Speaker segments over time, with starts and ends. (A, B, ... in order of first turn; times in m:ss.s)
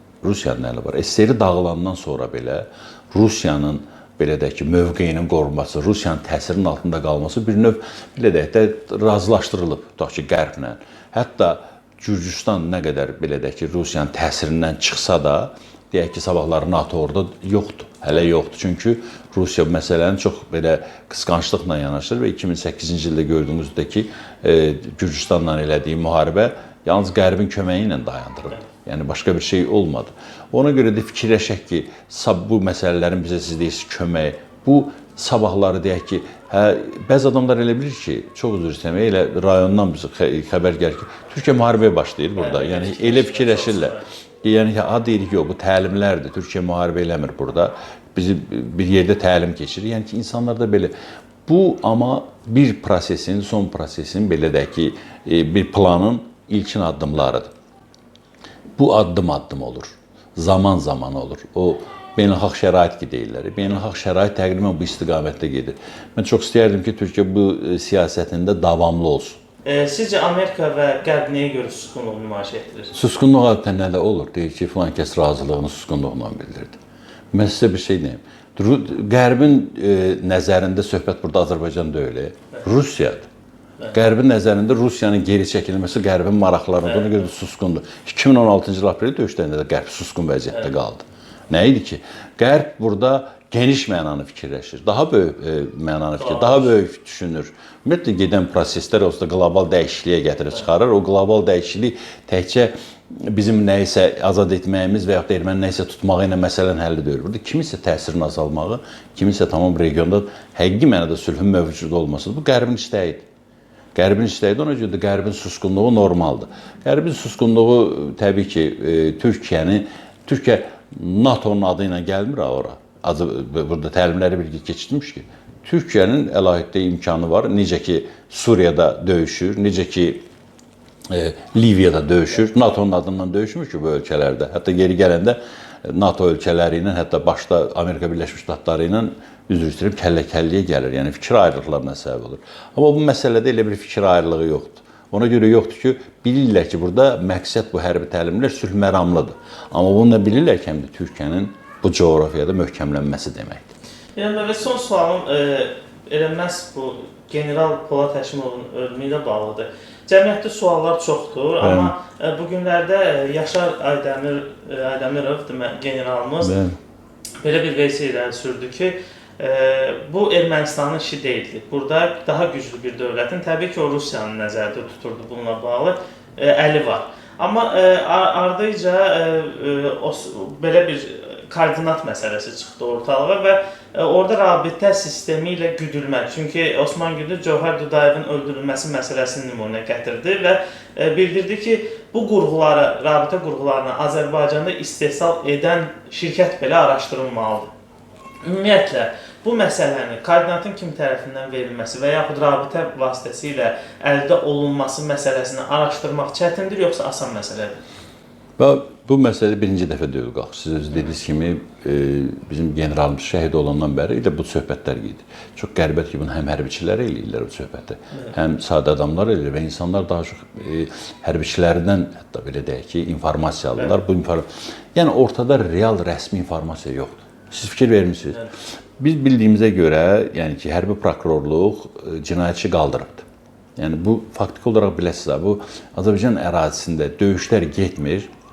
0:00.2-0:50.9 A
0:42.4-0:44.0 B
0:51.5-0:57.5 A
0:58.8-1:09.4 A
1:09.6-1:12.9 B
1:12.9-1:16.8 A
1:17.3-1:23.3 A
1:23.9-1:53.3 A
1:36.2-1:36.7 B
1:54.0-2:10.2 A
2:11.1-2:33.7 A
2:34.2-2:46.5 B
2:41.6-2:41.9 A
2:46.4-2:46.8 A
2:47.4-3:17.7 B
3:18.4-3:27.8 B
3:28.6-3:58.3 A